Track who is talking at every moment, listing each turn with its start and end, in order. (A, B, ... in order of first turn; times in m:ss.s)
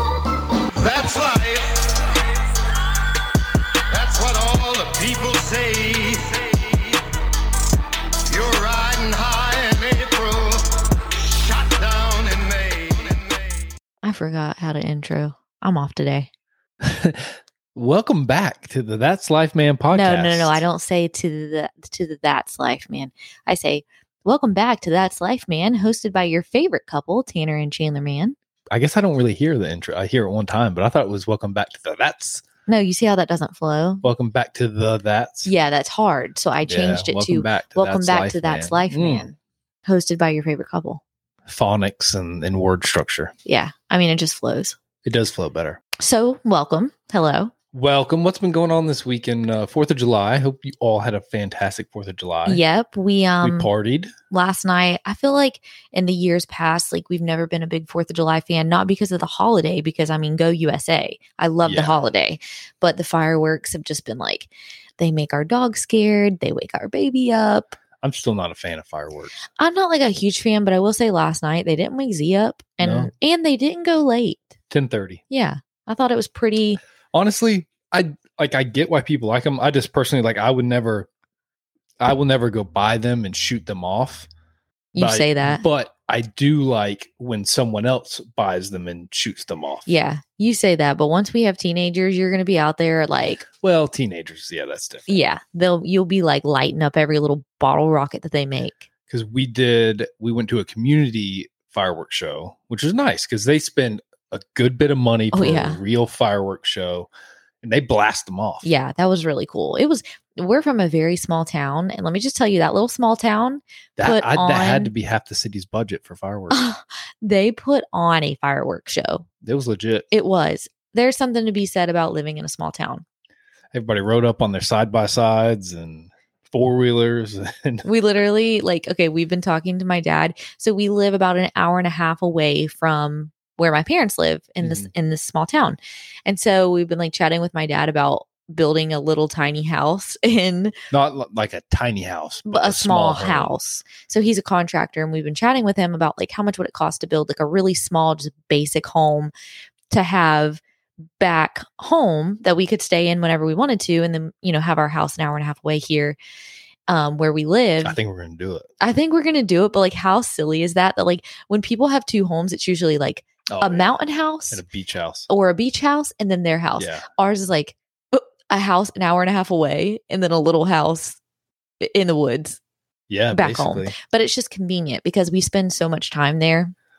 0:00.7-0:03.0 A
0:03.9-0:07.0 A
0:08.3-0:13.7 A
0:14.0-0:16.3 B
0:16.8-0:20.6 C
0:19.9-0:28.4 B
0:28.7-0:32.4 C
0:32.7-0:34.0 B
0:34.0-0:35.5 C
0:35.4-0:41.0 B
0:36.6-0:39.3 C
0:41.5-0:43.3 C
0:43.4-0:44.8 B
0:45.0-0:45.8 C
0:46.0-0:47.5 B
0:47.7-0:52.6 C
0:52.4-0:53.7 B
0:53.4-0:54.1 C
0:54.3-1:07.8 B
1:01.6-1:02.0 C
1:08.0-1:09.4 C
1:09.6-1:14.5 B
1:12.8-1:13.1 C
1:14.7-1:15.2 C
1:15.3-1:16.8 B
1:17.1-1:21.1 C
1:22.0-1:24.3 C
1:24.9-1:25.6 B
1:25.0-1:30.0 C
1:29.9-1:33.4 B
1:33.4-1:35.2 C
1:35.1-1:38.9 B
1:39.1-1:47.1 C
1:45.3-1:45.8 B
1:47.6-1:48.7 C
1:48.6-1:54.9 B
1:54.0-1:56.7 C
1:56.5-1:59.2 B
1:59.4-2:00.1 C
2:00.1-2:03.0 B
2:03.7-2:07.8 C
2:07.8-2:20.7 B
2:14.6-2:14.9 C
2:20.9-2:23.5 C
2:22.5-2:29.3 B
2:29.9-2:30.6 B
2:31.2-2:36.2 B
2:36.9-2:38.0 B
2:37.8-2:38.7 C
2:38.8-2:44.6 B
2:43.5-2:44.0 C
2:44.5-2:45.3 C
2:45.3-2:51.2 B
2:46.8-2:47.0 C
2:51.8-2:52.6 B
2:53.1-2:54.0 C
2:53.3-2:56.7 B